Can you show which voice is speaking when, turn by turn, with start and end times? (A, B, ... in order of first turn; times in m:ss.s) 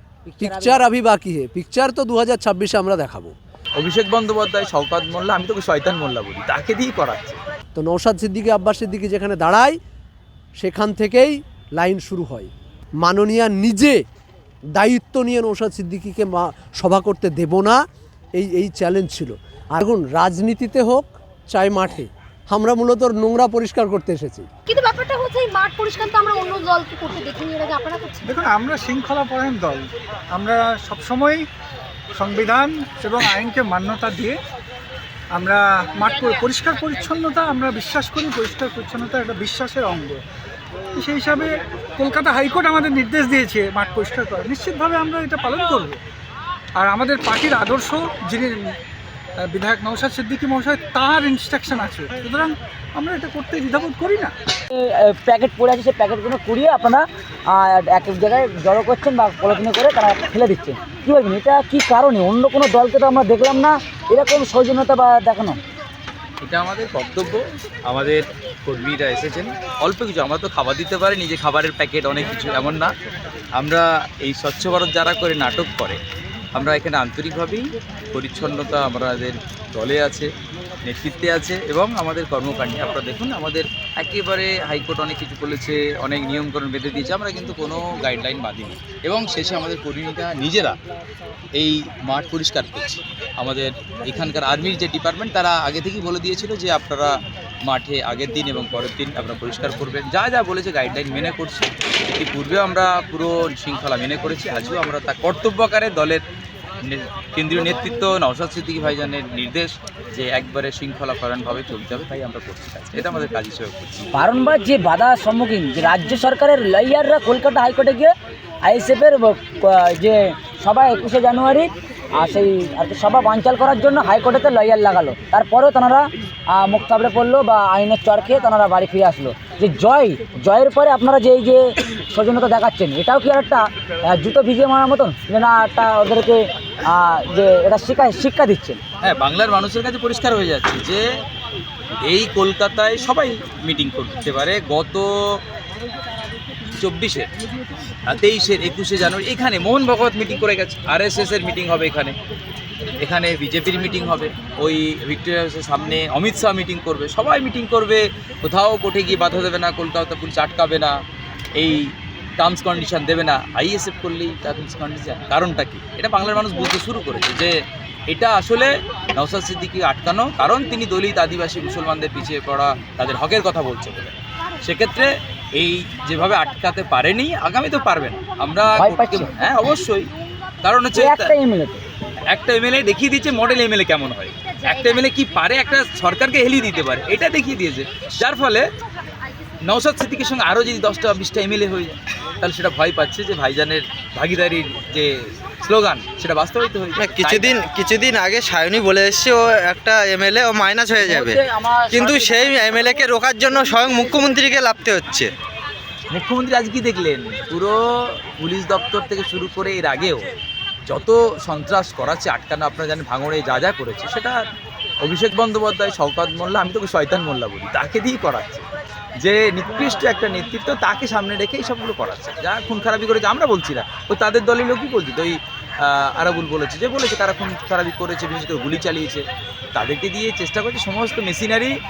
0:00.3-0:00.8 A
0:00.4-0:03.3 B
0:03.8-0:07.4 C
0:07.8-0:09.8 B
0:10.6-0:12.5 B
0:13.0-0:14.0 B
0:14.7-0:17.8 B
0:18.4-0:24.5 B
0:24.7-0:28.4 D
0:28.3-0:31.4 E
0:32.2-0:34.4 E
0:35.4-0:40.2 E
0:41.0-0:46.0 E
0:46.8-0:48.8 E
0:49.4-0:54.4 E
0:54.7-1:05.6 A
1:06.4-1:12.9 C
1:13.6-1:16.0 C
1:16.6-1:20.3 C
1:20.8-1:30.8 C
1:31.6-1:37.1 C
1:37.6-1:46.2 C
1:46.8-1:54.1 C
1:54.2-1:58.1 A
1:58.6-2:18.8 A
2:19.0-2:21.0 C
2:22.0-2:25.4 C
2:26.8-2:27.3 C
2:28.1-2:32.2 C
2:33.0-2:41.0 C
2:41.6-2:41.8 C
2:42.4-2:47.5 C
2:48.1-3:00.1 C
2:58.8-2:59.3 A
3:00.6-3:01.3 C
3:00.9-3:01.8 A
3:02.3-3:08.6 C
3:09.6-3:17.6 C
3:17.0-3:21.4 F
3:20.9-3:24.4 A
3:21.9-3:25.3 F
3:26.1-3:30.3 C
3:30.9-3:34.4 C
3:35.0-3:38.6 C
3:39.2-3:51.7 C